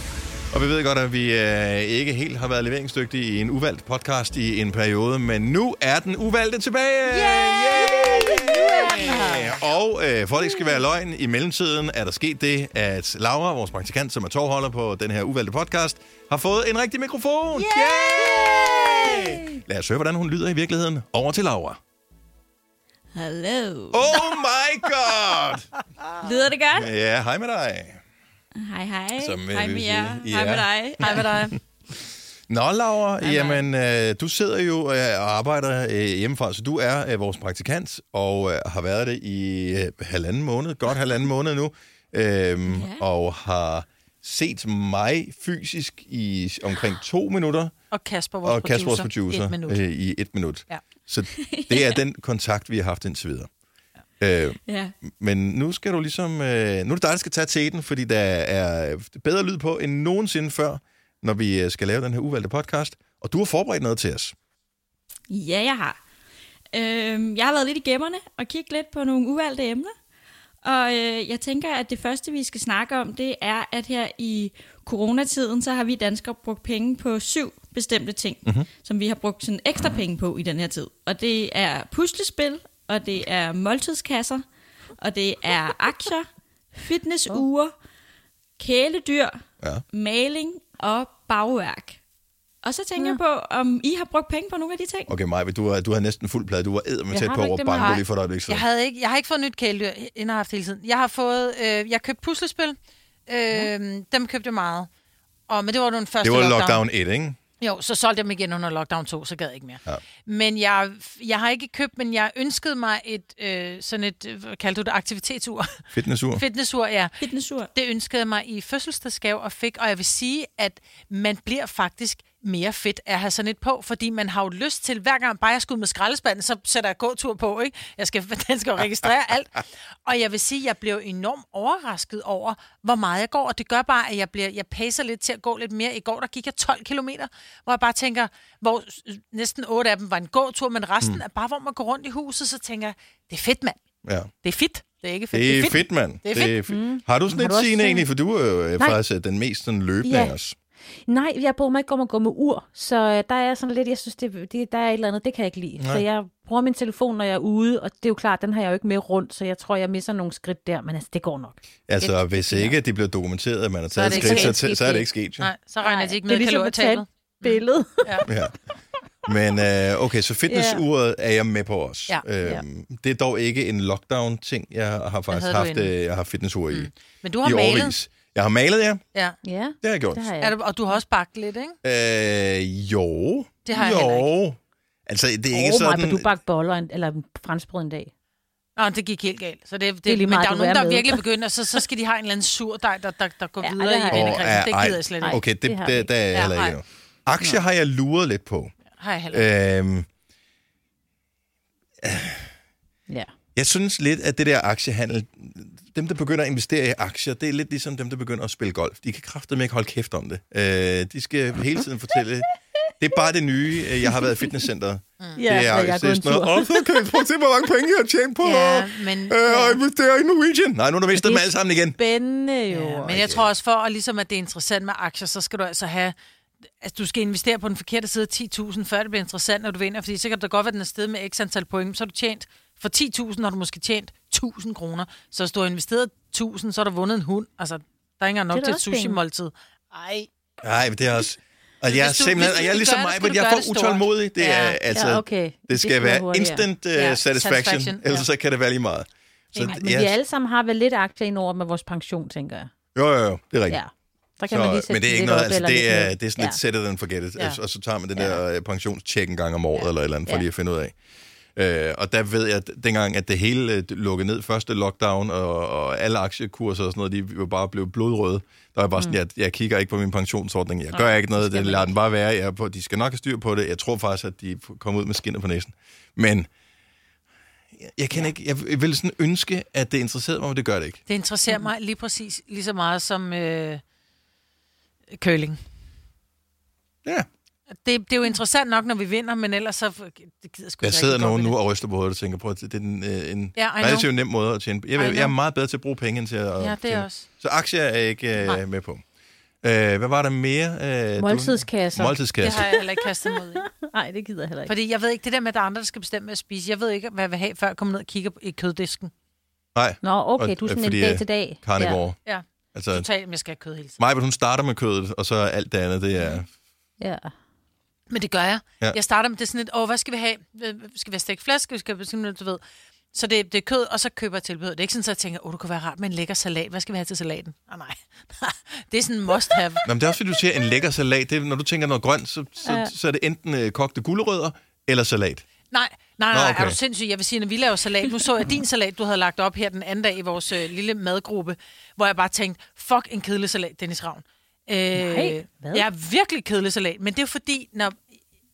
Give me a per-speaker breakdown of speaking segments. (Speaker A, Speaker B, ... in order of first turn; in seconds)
Speaker A: 0.5-21.8, 23.9-25.7, 26.8-28.0, 29.2-31.5, 32.5-47.8, 48.4-53.5, 54.2-64.3, 95.1-98.7, 106.2-107.4, 115.9-116.4, 144.0-144.3, 145.3-150.6, 155.8-156.1, 161.9-165.5, 168.2-168.6, 169.2-176.9, 177.4-179.0, 179.8-180.3, 181.8-186.3, 194.1-198.7, 199.3-200.1, 202.0-202.5, 203.6-212.5, 213.0-222.0, 223.1-223.5, 240.6-250.2, 252.9-253.8, 254.5-260.9, 261.6-276.5, 277.8-281.0, 290.8-299.0, 299.6-302.7, 309.8-312.2, 312.7-313.1, 314.0-316.5, 329.9-335.4, 336.3-336.8
Speaker B: 7.1-9.6, 17.8-18.6, 31.0-31.5, 33.2-33.6, 47.9-49.8, 97.8-102.8, 103.3-104.9, 105.5-106.8, 107.6-115.8, 116.3-117.2, 117.8-143.8, 144.4-146.6, 163.9-164.6, 165.4-168.3, 175.3-175.9, 176.7-178.0, 180.4-181.8, 183.7-184.3, 188.8-195.4, 196.3-196.8, 198.9-199.5, 218.4-219.8, 222.7-226.2, 226.8-240.3, 241.9-244.8, 246.9-248.3, 270.9-271.9, 281.1-283.8, 285.2-285.6, 287.7-291.5, 293.6-294.1, 295.0-295.3, 296.6-297.3, 302.4-303.7, 304.7-309.1, 312.3-314.0, 318.1-322.6, 323.1-329.9, 335.7-348.1
Speaker C: 23.1-24.3, 26.2-26.9, 28.6-31.5, 42.7-43.0, 51.4-52.0, 54.7-54.9, 65.3-66.0, 66.7-69.9, 70.6-84.4, 85.0-87.7, 88.6-89.4, 89.9-92.0, 92.6-95.1, 117.2-117.7
Speaker D: 97.1-98.0, 146.7-148.1, 150.0-150.3, 151.1-162.8, 164.1-165.1, 165.8-168.3, 170.5-170.8, 179.4-180.5, 185.5-188.1, 190.1-191.2, 193.6-194.4, 195.2-196.1, 215.4-217.1, 221.2-223.1, 238.5-239.2, 244.9-246.7, 249.6-252.7, 253.7-256.6, 301.2-304.7, 310.0-312.0, 317.0-317.3, 332.6-332.9, 344.9-345.9